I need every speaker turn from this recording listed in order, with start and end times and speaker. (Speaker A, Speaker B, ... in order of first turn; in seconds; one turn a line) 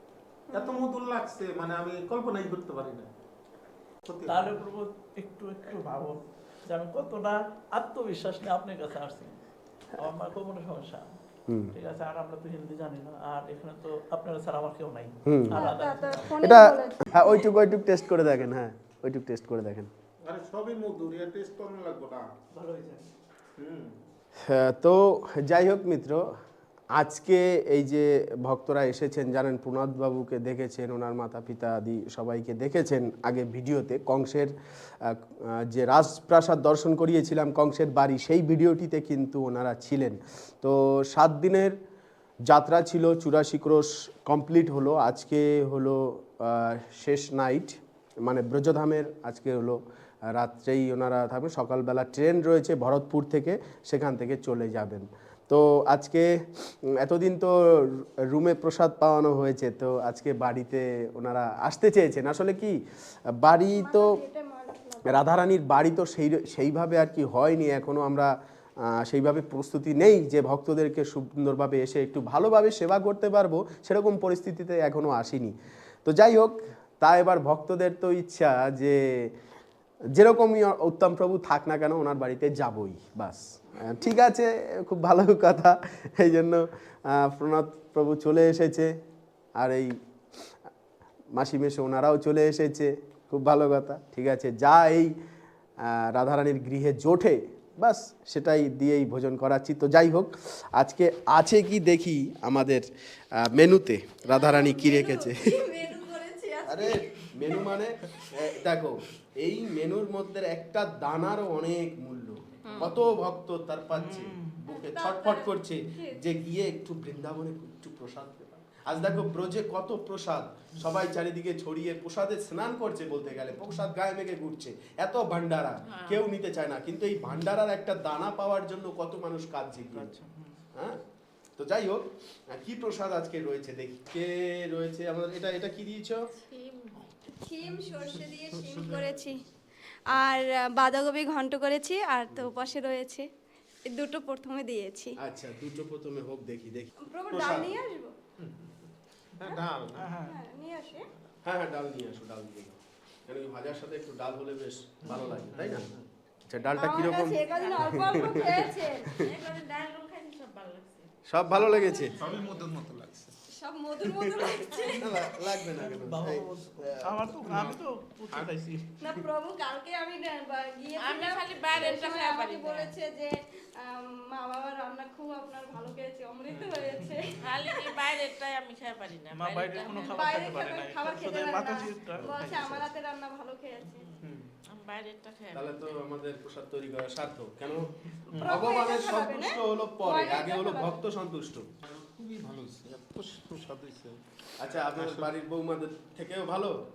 Speaker A: 0.5-0.9
Speaker B: 0.5-3.1
Speaker B: 4.0-4.5
Speaker C: 4.3-9.4
Speaker C: 9.9-11.2
Speaker D: 11.5-11.7
Speaker C: 11.7-16.4
Speaker D: 15.3-15.7
Speaker A: 15.5-18.1
Speaker D: 16.4-19.9
Speaker B: 20.3-22.2
Speaker C: 22.5-23.1
Speaker B: 23.6-24.0
Speaker D: 24.4-26.2
Speaker D: 26.9-41.8
Speaker D: 42.5-62.8
Speaker D: 63.4-64.2
Speaker A: 63.6-65.3
Speaker D: 65.1-75.5
Speaker D: 76.0-79.3
Speaker D: 80.2-88.9
Speaker D: 89.6-89.9
Speaker D: 91.3-95.1
Speaker D: 95.8-102.9
Speaker D: 103.4-105.6
Speaker A: 104.3-107.8
Speaker D: 106.7-130.2
Speaker E: 112.7-112.9
Speaker C: 114.0-114.6
Speaker A: 114.7-116.2
Speaker C: 118.9-119.3
Speaker E: 125.9-126.3
Speaker C: 129.9-130.6
Speaker D: 131.6-136.2
Speaker E: 136.4-137.1
Speaker A: 137.4-139.4
Speaker B: 138.2-139.3
Speaker A: 140.1-143.3
Speaker A: 143.9-145.2
Speaker D: 145.2-146.9
Speaker A: 147.0-148.1
Speaker B: 147.3-147.7
Speaker B: 148.4-150.1
Speaker C: 150.0-150.4
Speaker A: 150.2-151.1
Speaker B: 150.9-151.2
Speaker D: 151.4-155.9
Speaker B: 155.1-156.1
Speaker D: 156.5-159.2
Speaker A: 156.8-159.1
Speaker E: 157.5-158.4
Speaker E: 159.2-162.7
Speaker D: 161.3-162.2
Speaker B: 162.2-163.3
Speaker A: 163.5-165.3
Speaker D: 164.0-167.2
Speaker C: 165.7-168.8
Speaker B: 167.4-168.5
Speaker A: 169.0-178.0
Speaker E: 171.0-172.9
Speaker B: 176.5-177.4
Speaker E: 177.4-180.3
Speaker C: 179.3-182.9
Speaker A: 180.0-184.1
Speaker B: 184.2-184.5
Speaker E: 184.7-186.0
Speaker D: 185.5-191.7
Speaker A: 188.4-191.0
Speaker B: 191.8-195.3
Speaker D: 194.6-196.8